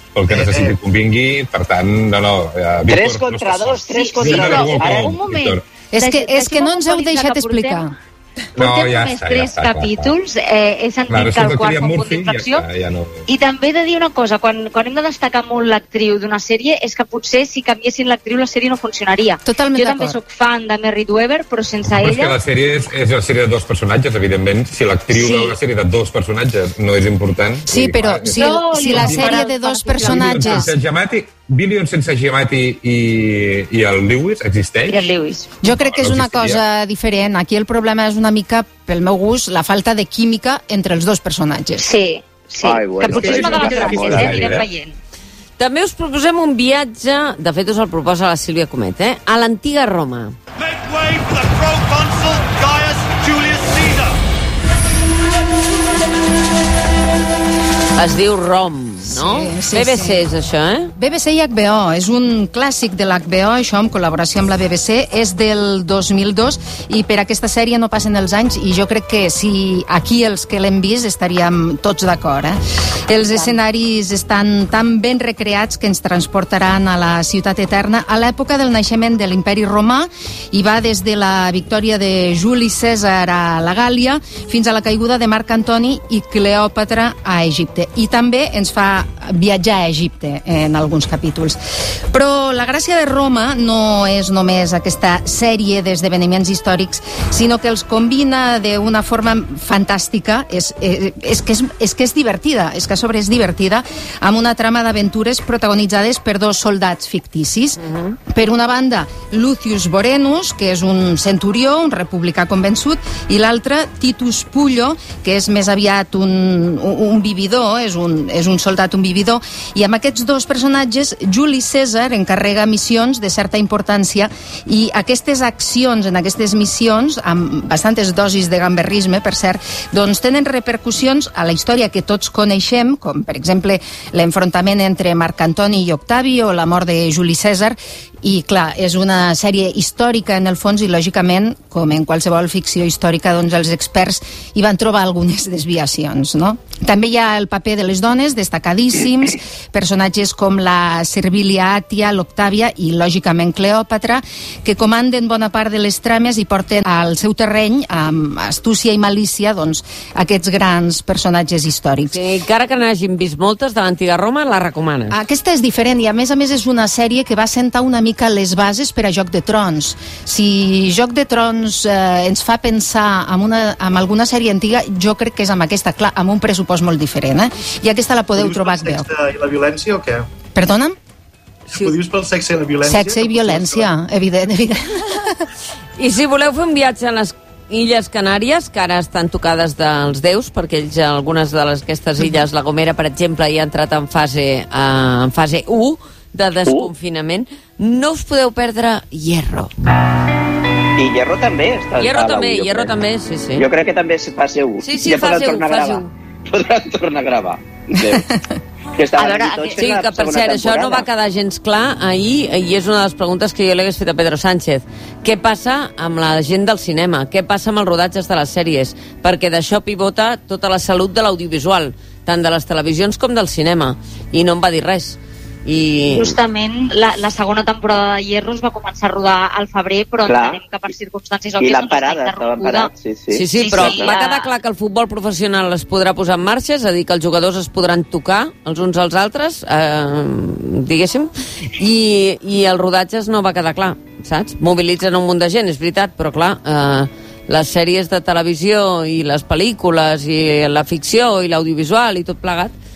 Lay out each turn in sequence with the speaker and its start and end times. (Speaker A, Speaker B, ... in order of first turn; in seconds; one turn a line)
Speaker A: 0.1-5.6
Speaker B: 0.3-0.8
Speaker C: 2.9-5.2
Speaker D: 3.9-7.8
Speaker E: 5.9-7.9
Speaker D: 8.5-12.6
Speaker A: 8.6-10.1
Speaker A: 11.1-13.2
Speaker D: 13.3-22.4
Speaker E: 19.4-20.2
Speaker A: 21.8-29.4
Speaker D: 25.1-25.5
Speaker E: 27.7-30.7
Speaker D: 28.3-30.7
Speaker A: 29.9-35.1
Speaker D: 34.9-35.5
Speaker E: 35.6-41.9
Speaker A: 35.7-36.6
Speaker D: 41.8-44.9
Speaker C: 42.6-44.6
Speaker A: 43.0-44.7
Speaker F: 45.6-50.4
Speaker G: 50.8-54.1
Speaker F: 58.0-60.9
Speaker E: 59.0-60.2
Speaker E: 61.0-91.6
Speaker E: 92.1-162.2
Speaker F: 107.8-108.2
Speaker F: 162.1-165.2
Speaker E: 165.1-179.1
Speaker B: 178.3-180.3
Speaker E: 180.5-181.0
Speaker B: 181.7-183.9
Speaker E: 182.8-185.5
Speaker F: 186.0-199.7
Speaker C: 200.9-202.9
Speaker F: 202.0-203.7
Speaker C: 203.6-208.3
Speaker F: 204.8-206.1
Speaker E: 208.1-208.4
Speaker C: 208.9-211.1
Speaker D: 209.1-209.8
Speaker F: 209.8-226.3
Speaker D: 226.1-232.9
Speaker C: 230.2-230.6
Speaker C: 231.6-234.2
Speaker F: 233.3-252.7
Speaker D: 233.6-234.4